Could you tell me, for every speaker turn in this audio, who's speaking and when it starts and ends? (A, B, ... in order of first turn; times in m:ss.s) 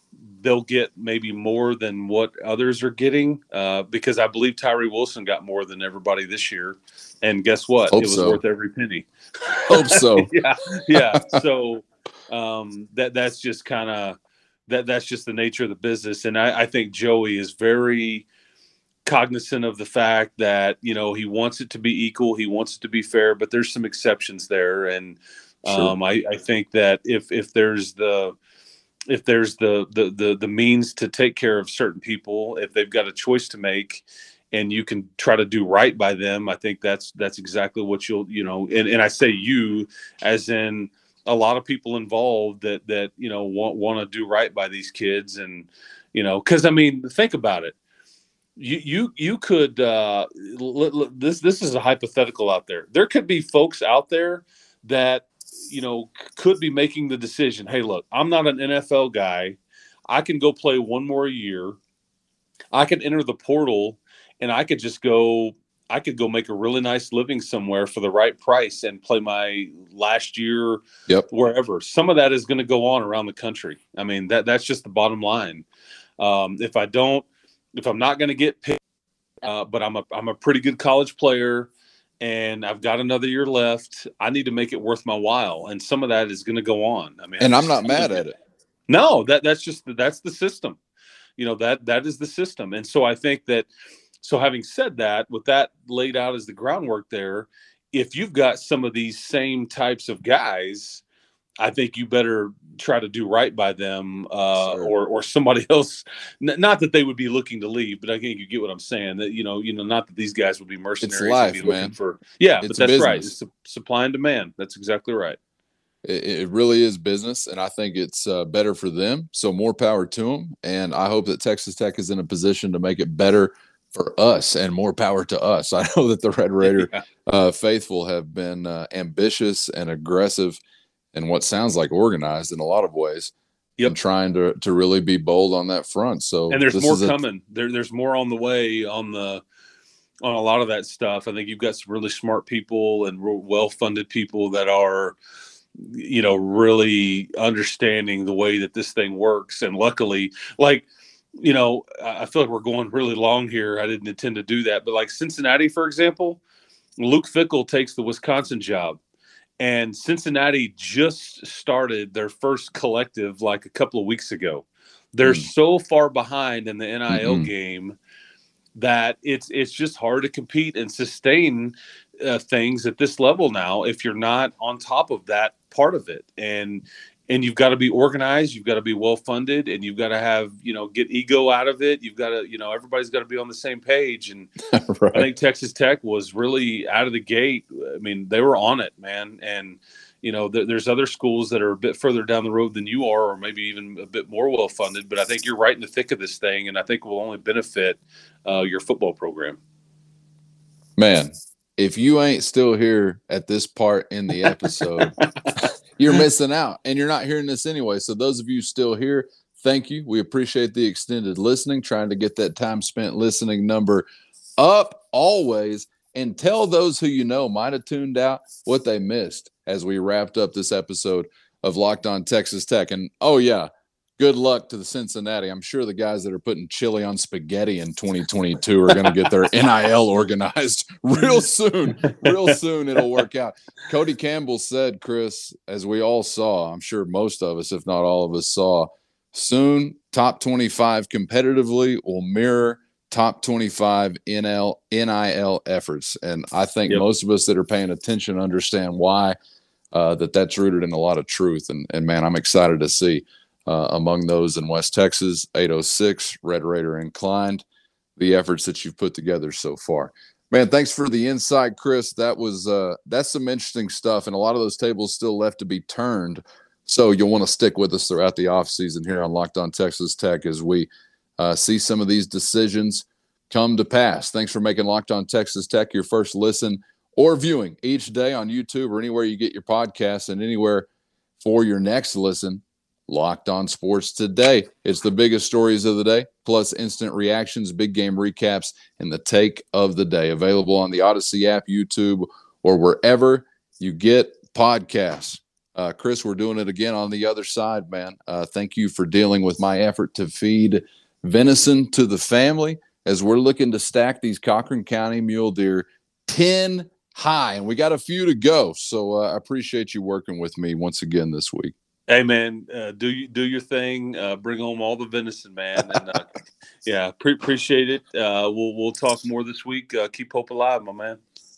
0:00.2-0:18.2 A
0:07.9-0:08.4 B
0:09.7-0:10.3 B
0:10.9-0:11.4 B
0:19.0-0:28.3 A
0:25.6-0:25.9 B
0:29.1-0:47.7 A
0:48.6-0:59.6 A
1:00.1-1:01.8 A
1:02.7-1:15.6 A
1:16.2-1:18.8 A
1:19.4-1:21.7 A
1:22.2-1:28.2 A
1:27.4-1:28.3 B
1:28.9-1:30.8 A
1:31.4-1:33.7 A
1:34.2-1:41.0 A
1:41.6-1:55.4 A
1:44.6-1:44.9 B
1:51.0-1:51.9 B
1:52.6-1:53.3 B
1:56.0-2:10.6 B
2:06.6-2:07.0 A
2:11.1-2:13.3 B
2:13.8-2:17.2 B
2:16.5-2:19.4 A
2:20.2-2:25.2 A
2:25.8-2:36.4 A
2:37.0-2:39.0 A
2:39.6-2:48.0 A
2:47.1-2:47.5 B
2:48.7-3:04.5 A
3:04.7-3:05.3 B
3:05.1-3:19.6 A
3:21.0-3:34.1 B
3:25.0-3:25.5 A
3:34.6-4:09.4 B
3:52.1-3:52.5 A
4:09.9-4:17.6 B
4:18.2-4:40.9 B
4:41.4-5:11.7 B
5:12.1-5:16.3 A
5:16.8-5:21.2 A